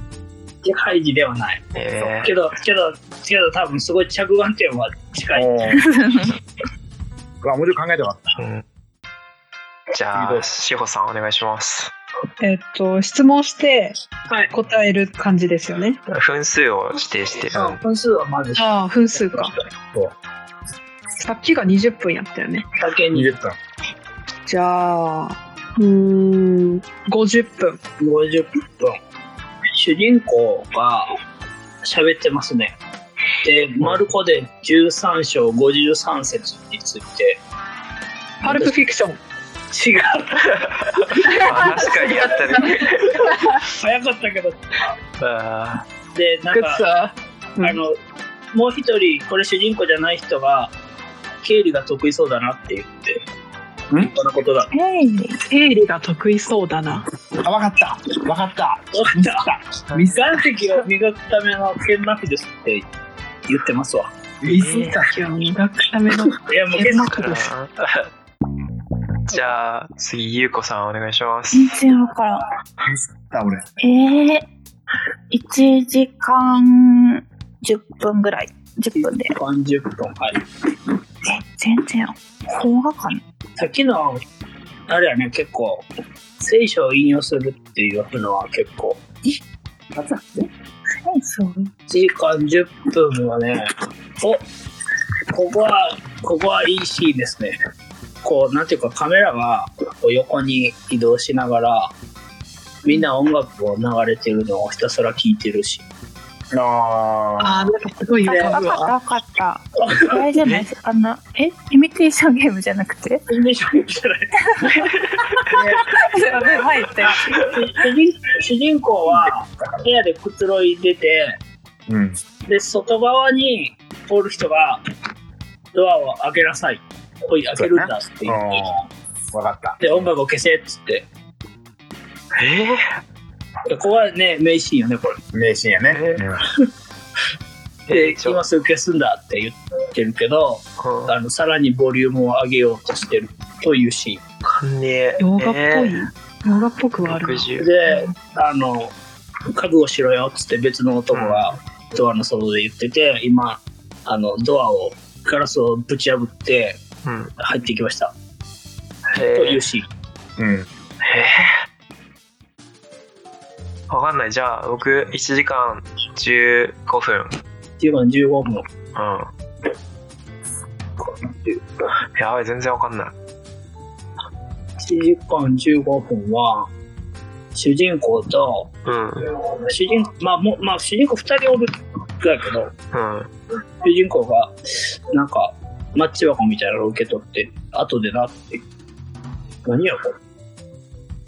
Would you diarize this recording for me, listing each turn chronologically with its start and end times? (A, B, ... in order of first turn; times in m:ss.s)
0:00.6-0:05.8 A
0:01.7-0:02.3 B
0:05.3-0:05.9 C
0:06.0-0:06.3 D
0:07.4-0:08.2 C
0:08.4-0:08.6 B
0:09.9-0:11.9 B
0:10.1-0:10.5 C
0:12.4-0:14.0 E
0:14.3-0:14.5 A
0:14.5-0:16.0 E
0:16.1-0:17.8 B
0:17.5-0:19.6 A
0:18.6-0:19.5 E
0:21.2-0:22.6 E
0:22.8-0:23.3 A
0:23.1-0:23.6 C
0:24.5-0:27.8 E
0:28.0-0:29.0 A
0:29.7-0:31.1 A
0:31.8-0:32.8 A
0:33.4-0:37.4 A
0:33.8-0:34.1 B
0:38.4-0:39.2 E
0:38.5-0:38.8 A
0:39.7-0:44.6 A
0:41.2-0:43.4 E
0:41.2-0:43.4 B
0:45.2-0:45.8 B
0:46.1-0:46.8 A
0:46.5-0:47.8 E
0:47.6-0:47.9 A
0:48.5-0:50.7 A
0:51.4-0:53.2 A
0:53.9-0:54.7 A
0:54.7-0:55.4 D
0:55.5-0:57.0 E
0:57.4-1:00.2 C
0:58.9-1:02.9 A
0:59.9-1:00.1 B
1:03.5-1:04.1 A
1:04.4-1:05.1 C
1:04.4-1:05.0 B
1:04.5-1:07.5 E
1:06.4-1:07.4 A
1:07.1-1:08.1 B
1:09.3-1:11.7 B
1:11.5-1:12.5 D
1:12.8-1:13.7 C
1:13.8-1:14.5 D
1:15.3-1:19.4 D
1:18.9-1:20.4 A
1:21.3-1:23.2 D
1:23.6-1:24.2 A
1:24.9-1:25.9 A
1:26.4-1:29.0 A
1:29.9-1:30.5 C
1:31.0-1:31.7 D
1:31.9-1:34.4 A
1:35.3-1:37.6 A
1:38.2-1:41.9 A
1:42.8-1:45.8 A
1:46.5-1:47.7 C
1:47.4-1:48.9 E
1:48.2-1:53.2 D
1:49.8-1:50.2 A
1:50.4-1:50.7 B
1:53.3-2:01.4 A
1:54.5-1:54.9 D
1:55.8-1:57.5 D
1:59.4-1:59.9 C
2:01.9-2:02.2 C
2:02.5-2:04.8 A
2:05.7-2:08.7 A
2:07.6-2:10.1 C
2:09.8-2:11.1 A
2:12.4-2:13.0 B
2:13.7-2:15.2 A
2:15.3-2:16.4 C
2:15.9-2:16.2 B
2:17.9-2:18.4 B
2:17.9-2:24.2 A
2:20.8-2:21.1 B
2:24.4-2:26.0 B
2:25.2-2:28.1 E
2:27.0-2:27.7 B
2:27.6-2:28.9 A
2:29.5-2:36.8 A
2:31.1-2:31.5 B
2:37.0-2:37.3 B
2:37.4-2:38.1 A
2:39.1-2:39.6 B
2:39.3-2:39.9 A
2:40.4-2:40.7 C
2:41.0-2:41.5 B
2:43.9-2:47.4 B
2:47.8-2:48.7 A
2:49.0-2:49.3 B
2:51.0-2:51.6 A
2:52.2-2:53.1 B
2:54.8-2:56.7 A
2:57.6-2:58.7 A
2:58.8-2:59.2 B
2:59.6-3:02.7 A
3:02.9-3:03.3 B
3:03.8-3:04.6 A
3:05.1-3:08.6 A
3:09.6-3:10.2 A